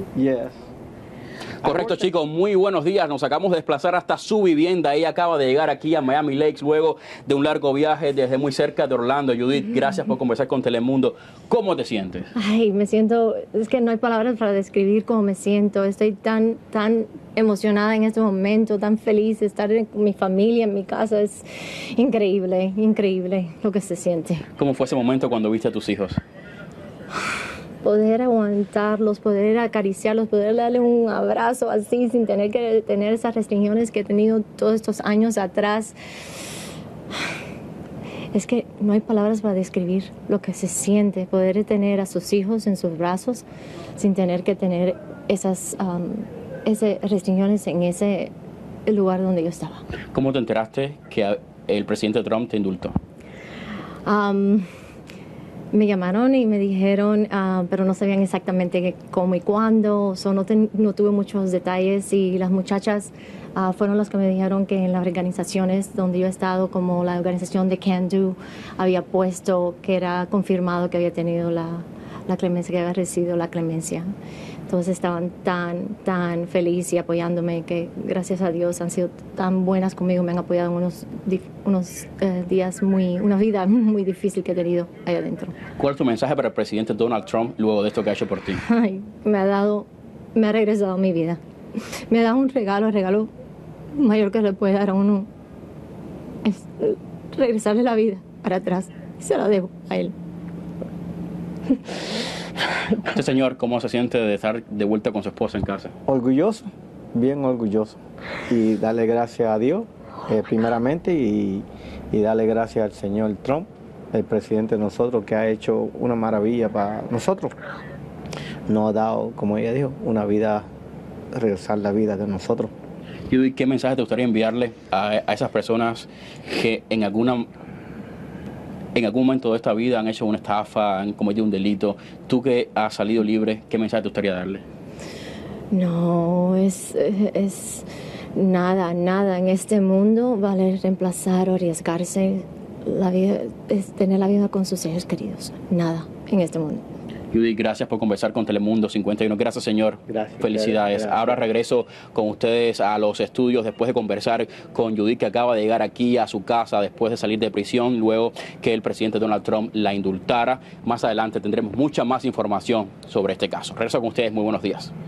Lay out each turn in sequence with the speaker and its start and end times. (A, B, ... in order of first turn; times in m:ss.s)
0:00.1-0:00.6 A
0:01.6-0:12.3 B
0:12.4-0:24.4 C
0:24.6-0:26.2 B
0:27.8-0:35.9 C
0:38.3-0:43.4 C
0:44.0-0:48.3 C
0:48.8-0:49.8 C
0:50.1-0:53.0 B
0:54.0-0:54.6 C
0:55.7-1:14.1 C
1:14.7-1:25.5 C
1:25.8-1:28.6 B
1:28.6-1:31.4 C
1:32.1-1:33.3 C
1:33.9-1:35.3 C
1:36.4-1:40.1 C
1:42.9-1:45.9 B
1:46.1-1:48.0 A
1:48.5-1:57.5 A
1:58.7-2:00.7 A
2:01.3-2:02.7 A
2:03.3-2:07.5 B
2:08.9-2:14.6 B
2:15.7-2:26.8 C
2:27.3-2:44.9 B
2:30.1-2:31.4 A